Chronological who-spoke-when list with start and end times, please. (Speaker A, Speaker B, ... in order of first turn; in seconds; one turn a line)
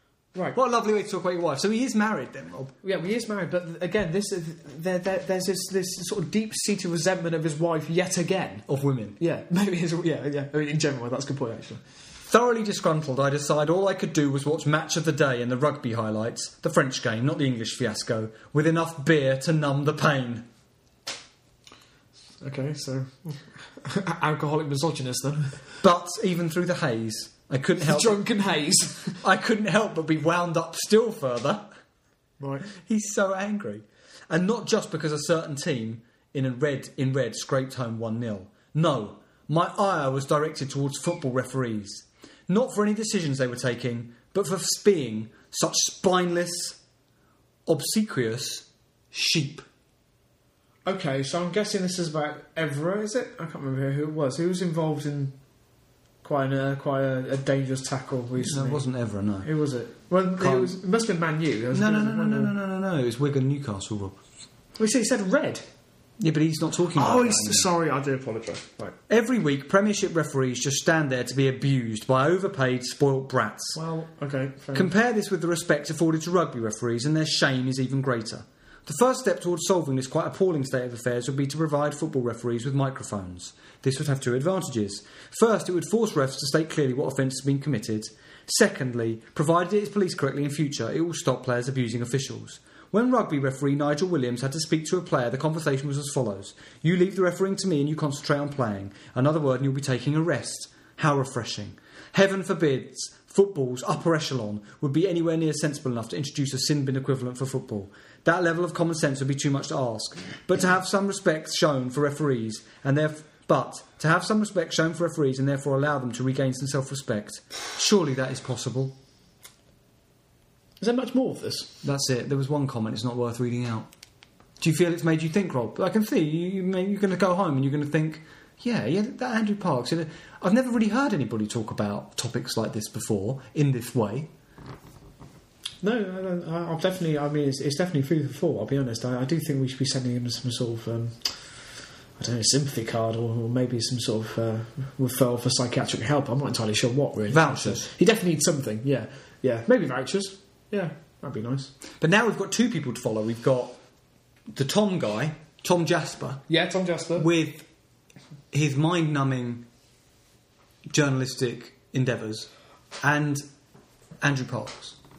Speaker A: 0.5-2.7
Speaker B: 2.8-8.7
Speaker A: 8.7-9.2
Speaker B: 9.2-11.8
Speaker A: 12.3-20.4
Speaker B: 22.4-25.6
Speaker A: 25.8-28.2
Speaker B: 27.8-29.2
Speaker A: 29.2-31.6
Speaker B: 32.4-32.7
Speaker A: 32.7-46.8
Speaker A: 47.7-49.6
Speaker B: 50.9-55.3
Speaker B: 56.2-58.8
Speaker A: 58.4-59.5
Speaker B: 59.4-62.5
Speaker A: 60.4-60.7
Speaker A: 61.7-64.2
Speaker B: 64.8-65.6
Speaker A: 66.2-67.7
Speaker B: 66.9-69.0
Speaker A: 69.1-73.8
Speaker B: 73.7-74.9
Speaker A: 74.7-119.0
Speaker B: 120.8-121.8
Speaker A: 121.8-123.9
Speaker A: 124.6-134.3
Speaker B: 135.8-141.3
Speaker B: 142.2-151.7
Speaker A: 147.3-147.8
Speaker A: 152.0-153.8
Speaker A: 154.5-156.4
Speaker B: 156.5-157.3
Speaker A: 157.2-157.7
Speaker A: 158.5-159.7
Speaker A: 160.9-162.5
Speaker A: 163.0-163.4
Speaker A: 164.2-165.0